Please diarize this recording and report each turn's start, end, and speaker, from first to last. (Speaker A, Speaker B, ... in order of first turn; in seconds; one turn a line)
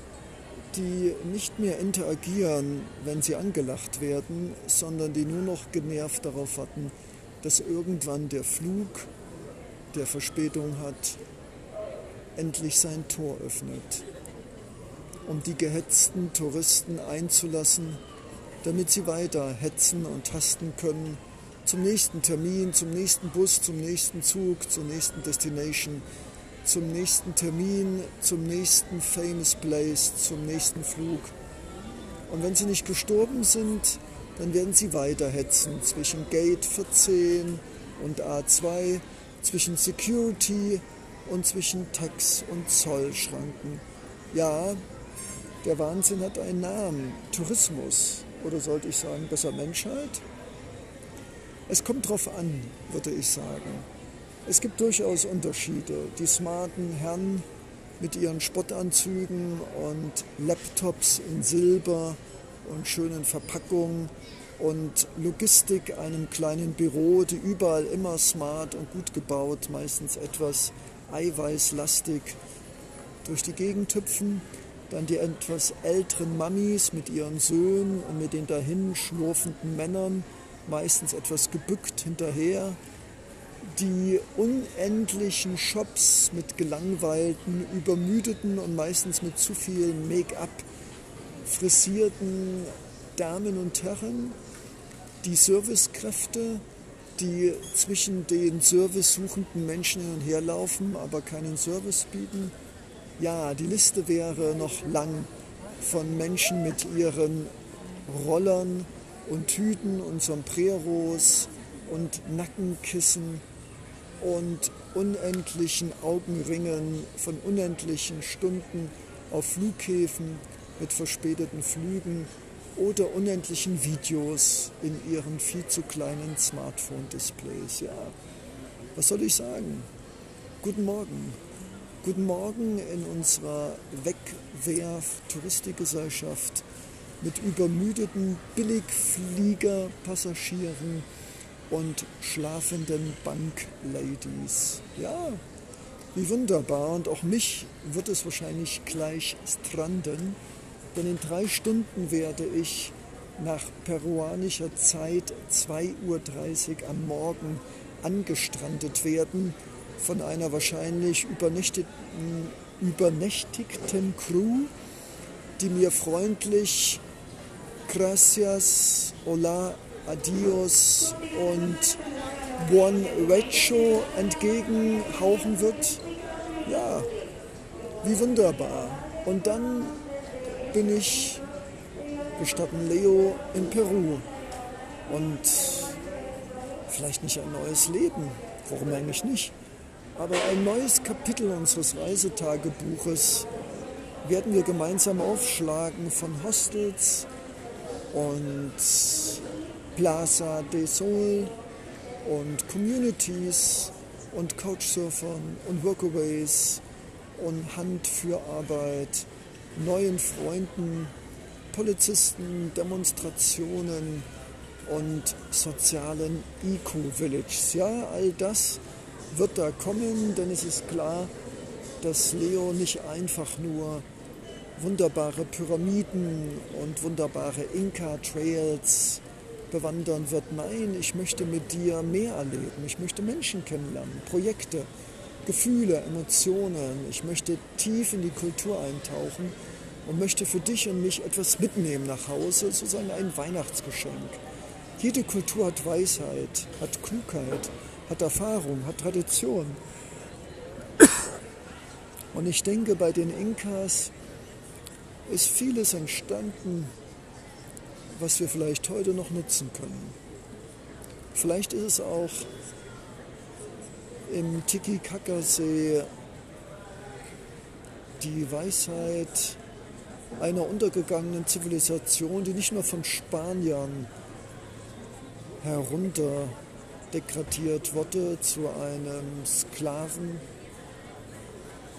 Speaker A: 0.7-9.1
Speaker A: 9.9-11.2
Speaker A: 12.3-14.1
Speaker A: 15.2-18.0
Speaker A: 18.6-26.0
Speaker A: 26.6-31.3
Speaker A: 32.3-44.8
Speaker A: 45.6-50.2
Speaker A: 51.7-53.9
Speaker A: 54.4-57.5
Speaker A: 58.0-72.4
Speaker A: 73.2-82.8
Speaker A: 83.6-90.7
Speaker A: 91.4-94.4
Speaker A: 95.2-96.6
Speaker A: 97.2-102.5
Speaker A: 103.2-107.5
Speaker A: 108.1-113.4
Speaker A: 114.2-128.2
Speaker A: 128.9-129.9
Speaker A: 130.6-131.4
Speaker A: 132.0-136.7
Speaker A: 137.2-141.1
Speaker A: 141.7-145.4
Speaker A: 146.1-150.4
Speaker A: 150.9-164.7
Speaker A: 165.6-167.0
Speaker A: 167.9-172.0
Speaker A: 172.6-176.0
Speaker A: 176.6-177.1
Speaker A: 178.0-180.0
Speaker A: 180.7-181.5
Speaker A: 182.4-184.3
Speaker A: 185.1-186.0
Speaker A: 186.9-189.6
Speaker A: 190.1-193.5
Speaker A: 194.2-197.3
Speaker A: 198.1-201.5
Speaker A: 202.2-206.8
Speaker A: 207.3-211.1
Speaker A: 211.7-214.3
Speaker A: 214.8-221.3
Speaker A: 222.0-224.1
Speaker A: 224.8-234.9
Speaker A: 235.4-244.4
Speaker A: 245.0-249.8
Speaker A: 252.3-254.1
Speaker A: 255.2-256.9
Speaker A: 258.1-260.1
Speaker A: 261.3-262.5
Speaker A: 264.3-266.1
Speaker A: 268.2-269.6
Speaker A: 270.4-274.1
Speaker A: 275.6-276.6
Speaker A: 277.1-280.4